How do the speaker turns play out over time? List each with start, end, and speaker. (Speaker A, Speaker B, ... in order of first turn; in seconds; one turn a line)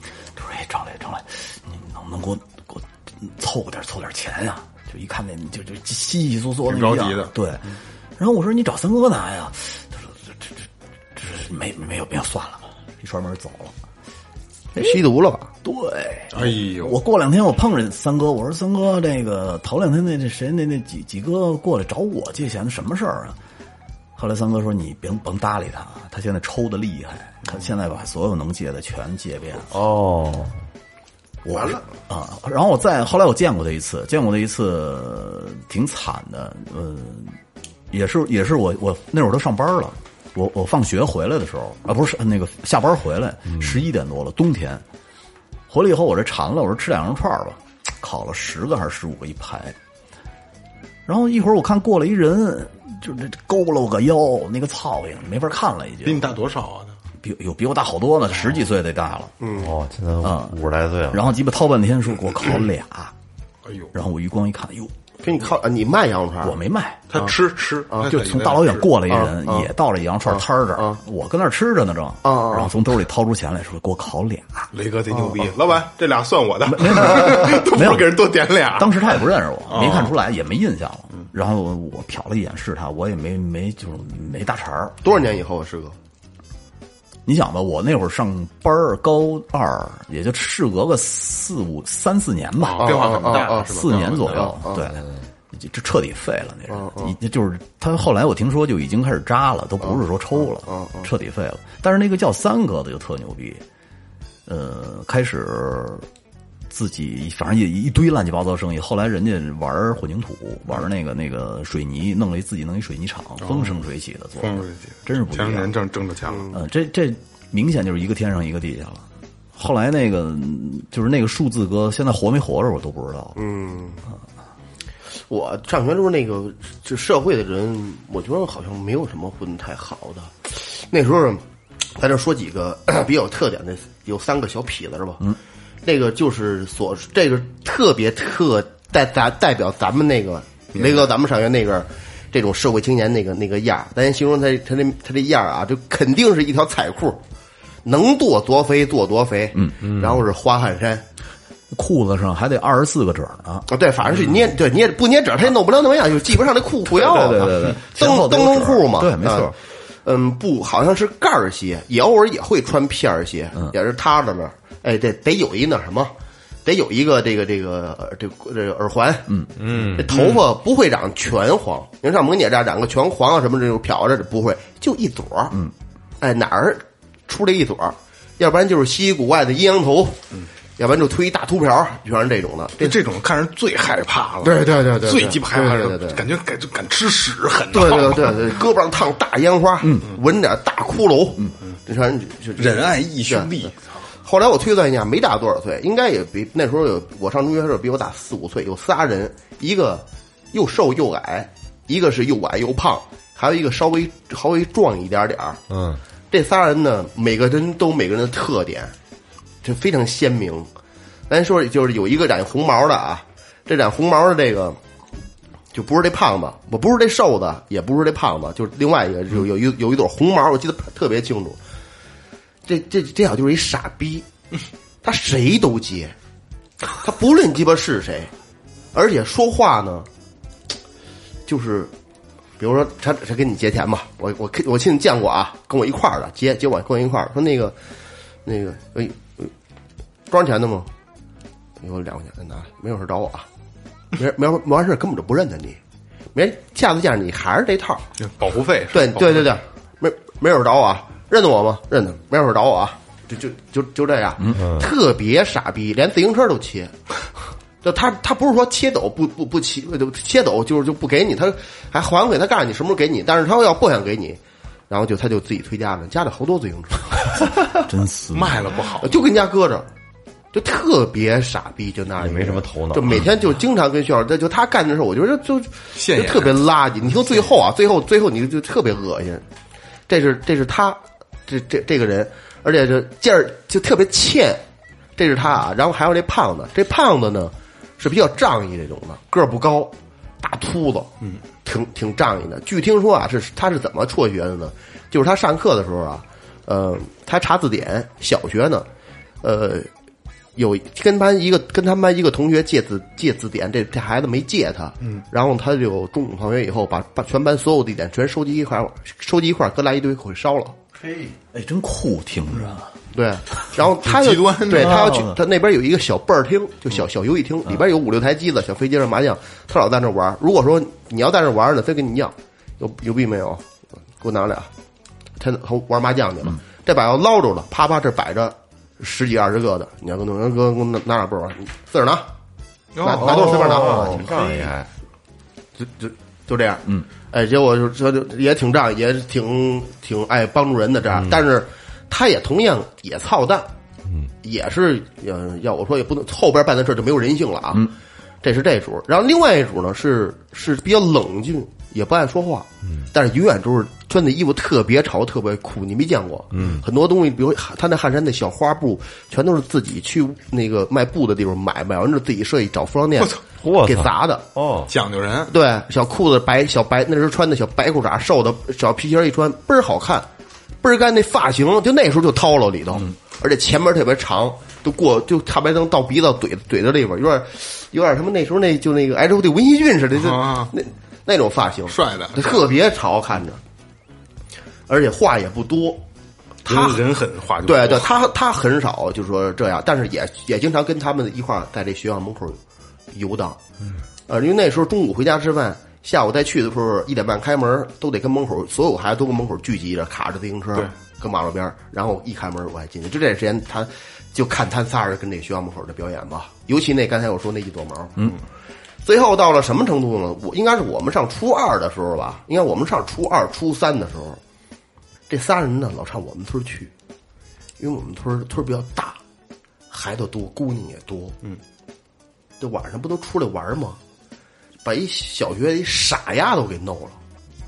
Speaker A: 0.3-7.6
Speaker B: 6.7-7.3
Speaker A: 8.2-13.7
Speaker C: 14.7-15.5
Speaker A: 15.6-23.4
Speaker B: 16.3-16.9
Speaker A: 24.1-29.8
Speaker D: 29.7-30.6
Speaker A: 31.4-37.4
Speaker A: 37.9-44.8
Speaker A: 45.7-49.8
Speaker A: 51.0-56.3
Speaker B: 56.0-57.0
Speaker A: 57.2-59.3
Speaker C: 59.4-59.7
Speaker D: 59.5-61.3
Speaker A: 60.2-60.5
Speaker A: 61.1-63.1
Speaker A: 63.9-64.9
Speaker C: 65.2-66.6
Speaker A: 66.4-67.0
Speaker B: 67.1-68.9
Speaker A: 68.0-74.7
Speaker C: 69.1-69.7
Speaker C: 70.3-71.0
Speaker C: 72.2-72.7
Speaker B: 74.7-80.1
Speaker A: 76.7-78.2
Speaker A: 78.7-85.0
Speaker C: 85.0-86.0
Speaker A: 87.2-103.6
Speaker B: 92.6-94.5
Speaker C: 92.8-94.9
Speaker C: 96.7-97.1
Speaker C: 100.6-101.1
Speaker A: 104.5-106.1
Speaker A: 106.7-115.7
Speaker B: 113.4-113.8
Speaker B: 114.4-116.5
Speaker A: 116.5-119.0
Speaker A: 119.5-123.4
Speaker C: 123.4-124.0
Speaker C: 125.3-131.4
Speaker C: 131.9-135.3
Speaker C: 135.8-147.2
Speaker B: 140.7-141.1
Speaker C: 147.8-151.0
Speaker A: 151.7-153.7
Speaker C: 153.7-166.1
Speaker A: 156.9-159.5
Speaker C: 166.6-175.5
Speaker D: 169.6-170.1
Speaker B: 170.1-170.4
Speaker C: 176.2-180.2
Speaker C: 180.8-183.0
Speaker B: 182.8-188.6
Speaker C: 184.4-186.2
Speaker C: 187.7-193.5
Speaker A: 189.8-190.1
Speaker B: 192.6-193.8
Speaker C: 194.2-205.6
Speaker D: 205.7-206.0
Speaker C: 206.3-208.9
Speaker C: 209.6-210.7
Speaker C: 211.3-214.8
Speaker C: 215.7-221.6
Speaker C: 222.7-224.2
Speaker C: 225.0-226.1
Speaker C: 226.9-228.3
Speaker C: 228.9-230.1
Speaker C: 231.4-231.9
Speaker C: 232.6-237.8
Speaker C: 238.4-239.5
Speaker C: 240.3-240.9
Speaker C: 241.8-243.5
Speaker C: 244.1-245.8
Speaker C: 246.3-248.0
Speaker B: 248.2-249.5
Speaker C: 248.9-256.9
Speaker D: 254.5-254.8
Speaker C: 257.8-267.5
Speaker A: 267.7-268.6
Speaker B: 268.3-269.2
Speaker C: 269.0-269.9
Speaker C: 270.5-279.4
Speaker D: 272.1-273.2
Speaker B: 275.9-276.6
Speaker C: 280.1-284.6
Speaker C: 285.2-291.1
Speaker C: 291.6-298.9
Speaker C: 299.4-299.9
Speaker C: 300.6-310.8
Speaker A: 311.4-312.9
Speaker C: 313.1-323.6
Speaker B: 314.0-315.1
Speaker A: 314.7-315.4
Speaker C: 324.2-324.7
Speaker C: 325.4-332.3
Speaker B: 332.9-333.6
Speaker C: 333.0-334.2
Speaker A: 333.2-334.7
Speaker D: 333.2-334.9
Speaker C: 335.8-343.7
Speaker D: 341.1-341.4
Speaker C: 344.4-347.9
Speaker C: 348.4-364.4
Speaker D: 356.5-356.8
Speaker D: 363.6-364.9
Speaker B: 364.9-365.5
Speaker C: 365.5-370.3
Speaker C: 370.8-383.6
Speaker B: 380.1-380.7
Speaker B: 381.9-382.6
Speaker C: 384.9-386.0
Speaker C: 386.6-387.0
Speaker B: 386.6-388.1
Speaker C: 387.6-392.6
Speaker C: 393.1-393.6
Speaker C: 394.3-408.3
Speaker C: 409.0-414.4
Speaker C: 415.3-416.9
Speaker C: 417.8-419.2
Speaker C: 419.9-421.4
Speaker C: 422.6-424.0
Speaker C: 424.8-427.2